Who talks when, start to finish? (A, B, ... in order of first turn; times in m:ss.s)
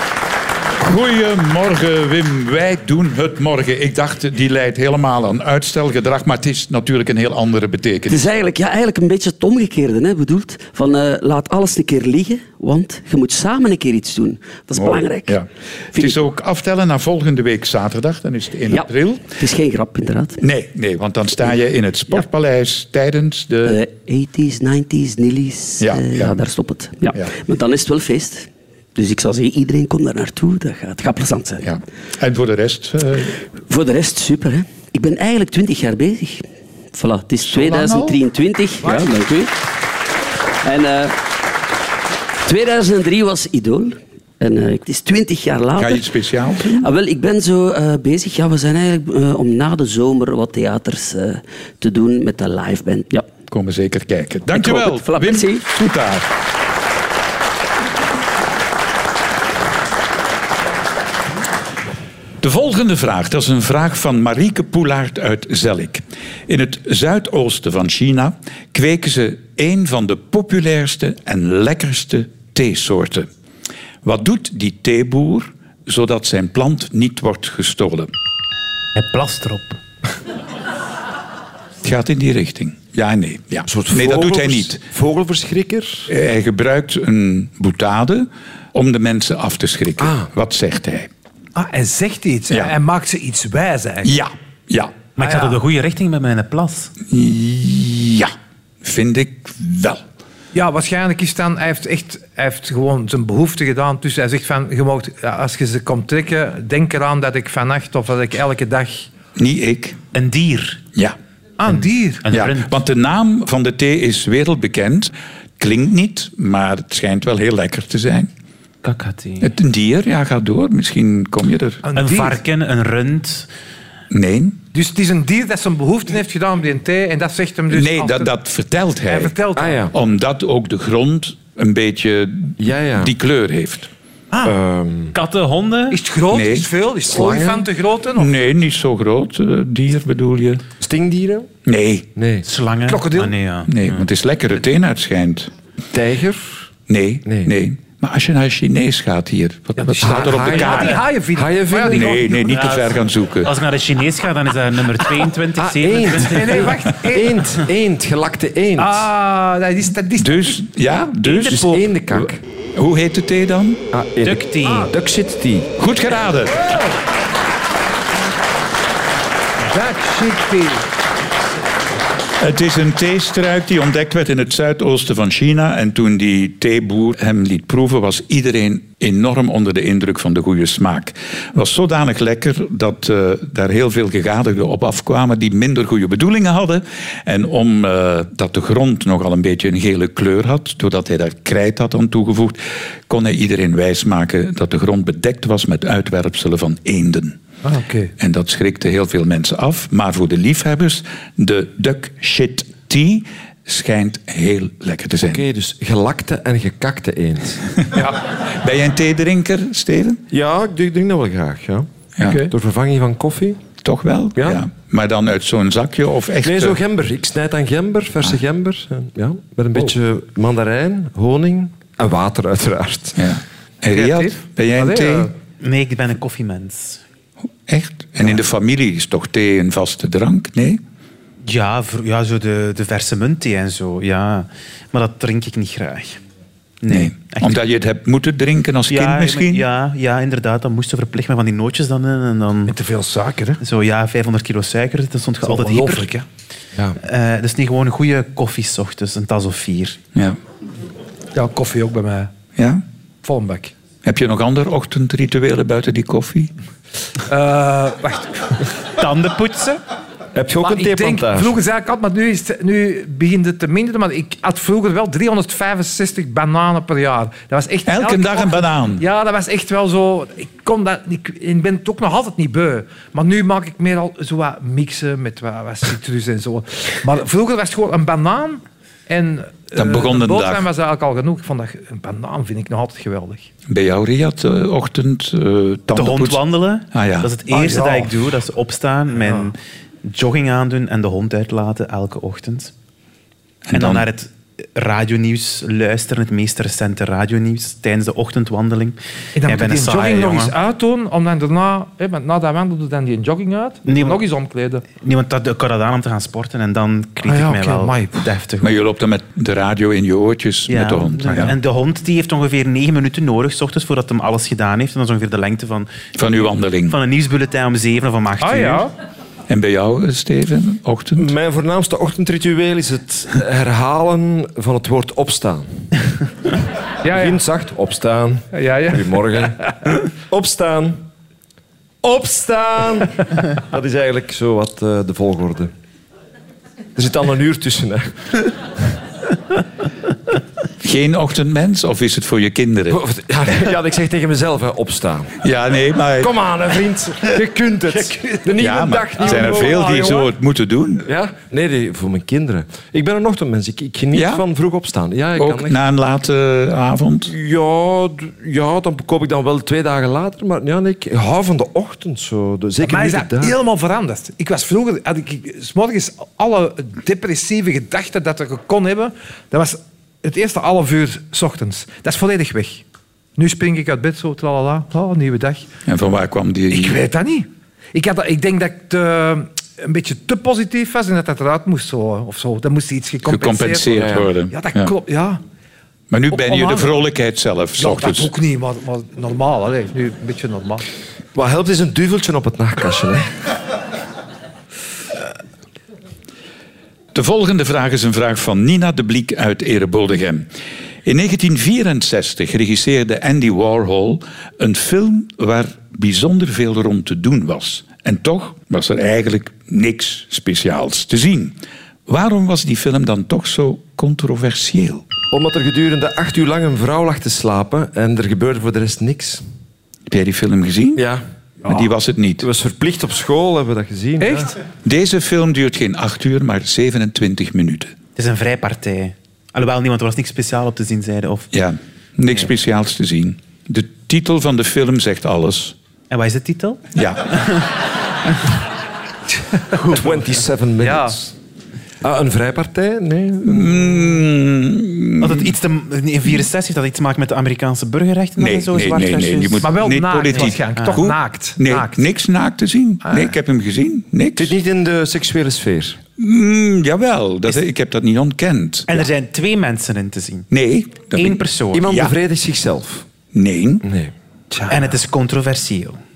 0:00.8-0:08.2 A
0:08.1-0:15.4 B
0:14.8-0:19.2 A
0:15.9-0:16.2 B
0:18.7-0:20.4 B
0:20.4-0:23.8 A
0:23.6-0:31.6 B
0:25.8-0:26.3 A
0:31.6-0:33.4 A
0:33.7-0:36.4 B
0:36.9-0:39.5 B
0:37.5-0:38.1 A
0:40.6-0:41.2 B
0:42.4-0:53.3 B
0:45.8-0:46.8 A
0:53.5-0:56.2 A
0:54.5-0:55.6 B
1:02.4-1:13.3 A
1:14.0-1:18.1 A
1:18.9-1:19.8 C
1:21.8-1:24.8 A
1:23.7-1:26.1 D
1:26.1-1:31.1 A
1:30.0-1:30.3 D
1:31.5-1:34.2 E
1:32.5-1:32.7 A
1:34.0-1:34.9 A
1:35.2-1:36.9 C
1:35.2-1:35.6 E
1:37.1-1:40.0 A
1:40.5-1:49.1 E
1:49.4-1:50.0 A
1:50.1-1:50.8 C
1:51.6-1:52.2 E
1:51.8-1:52.7 C
1:52.3-1:58.3 A
1:58.8-1:59.5 C
1:59.4-2:01.8 A
2:01.8-2:02.4 E
2:02.0-2:03.5 C
2:04.1-2:04.6 A
2:04.7-2:08.3 E
2:07.7-2:09.3 A
2:09.1-2:09.9 E
2:09.5-2:09.9 D
2:09.9-2:13.9 A
2:12.6-2:13.1 D
2:14.4-2:15.1 D
2:15.1-2:16.0 C
2:15.9-2:18.3 E
2:16.3-2:16.7 A
2:17.1-2:17.7 D
2:18.2-2:20.6 A
2:20.8-2:21.5 D
2:21.6-2:22.1 A
2:22.2-2:22.4 D
2:22.4-2:24.0 C
2:22.9-2:23.3 E
2:23.7-2:25.5 A
2:25.9-2:26.6 D
2:26.9-2:31.0 A
2:27.2-2:27.5 D
2:29.8-2:32.9 E
2:30.0-2:32.4 D
2:31.9-2:33.5 A
2:33.4-2:36.8 C
2:35.6-2:39.1 D
2:36.1-2:37.5 E
2:38.8-2:40.6 E
2:40.2-2:43.8 A
2:41.2-2:41.8 E
2:41.4-2:42.4 D
2:43.9-2:45.7 D
2:44.2-2:44.9 C
2:45.8-2:46.6 A
2:49.7-2:50.8 E
2:52.4-3:17.4 A
3:17.6-3:18.1 E
3:18.2-3:25.4 A
3:25.2-3:27.6 D
3:27.8-3:30.2 A
3:27.9-3:28.2 E
3:30.3-3:33.6 D
3:32.2-3:32.4 A
3:32.2-3:32.5 E
3:33.8-3:36.8 A
3:34.3-3:34.6 D
3:36.4-3:43.3 D
3:43.2-3:45.3 A
3:43.9-3:45.3 E
3:45.6-3:47.0 C
3:47.7-3:50.8 A
3:51.4-3:56.2 C
3:56.8-3:57.6 C
3:56.9-3:59.6 A
3:58.9-4:02.7 C
4:02.7-4:03.6 E
4:03.6-4:06.1 C
4:05.4-4:06.2 E
4:07.0-4:10.0 C
4:11.3-4:12.3 E
4:12.6-4:12.8 A
4:13.2-4:13.7 E
4:14.0-4:16.5 A
4:17.3-4:18.6 E
4:19.0-4:19.8 C
4:20.3-4:21.6 D
4:20.6-4:43.5 E
4:27.8-4:29.0 A
4:39.8-4:40.7 A
4:43.7-4:47.3 A
4:45.9-4:52.7 C
4:47.5-4:48.2 E
4:53.6-4:54.0 A
4:53.7-5:00.5 C
4:59.4-5:04.8 E
5:03.8-5:04.2 C
5:05.0-5:08.8 C
5:07.3-5:08.2 E
5:08.6-5:11.5 A
5:10.7-5:16.0 C
5:16.2-5:17.0 A
5:16.9-5:18.9 C
5:18.4-5:18.9 E
5:19.5-5:21.3 A
5:21.2-5:25.9 D
5:27.0-5:27.4 E
5:27.0-5:29.6 D
5:28.5-5:29.9 E
5:30.3-5:31.0 D
5:32.0-5:35.7 D
5:37.0-5:38.4 D
5:40.8-5:43.0 A
5:42.9-5:45.3 D
5:45.4-5:46.3 A
5:46.2-5:50.3 D
5:48.1-5:48.4 E
5:48.6-5:51.0 A
5:49.2-5:50.3 E
5:51.0-5:55.8 D
5:54.1-5:54.4 A
5:55.4-5:57.3 A
5:57.2-6:03.6 D
6:02.8-6:12.8 E
6:13.4-6:15.7 E
6:15.8-6:17.0 A
6:16.7-6:25.4 E
6:23.2-6:24.9 A
6:24.0-6:24.3 D
6:26.1-6:28.3 A
6:26.3-6:27.0 E
6:27.8-6:30.8 E
6:31.3-6:33.3 D
6:37.1-6:40.5 A
6:41.0-6:51.6 A
6:52.1-6:55.0 A
6:55.3-6:59.4 D
7:00.1-7:01.0 A
7:01.0-7:04.5 D
7:01.6-7:02.5 A
7:04.2-7:04.5 E
7:04.8-7:07.9 A
7:08.2-7:11.5 C
7:11.5-7:15.7 A
7:16.1-7:17.7 C
7:16.9-7:17.3 A
7:19.9-7:21.3 D
7:20.8-7:21.2 E
7:22.0-7:24.1 D
7:23.4-7:25.5 A
7:25.2-7:29.7 C
7:28.4-7:34.5 A
7:29.6-7:32.0 E
7:30.3-7:31.1 C
7:33.0-7:33.4 E
7:34.4-7:36.0 D
7:36.2-7:38.9 A
7:38.9-7:40.5 C
7:40.5-7:42.1 A
7:41.1-7:41.9 C
7:41.7-7:43.0 D
7:43.3-7:43.8 A
7:43.8-7:44.1 D
7:44.5-7:44.9 E
7:44.7-7:46.0 C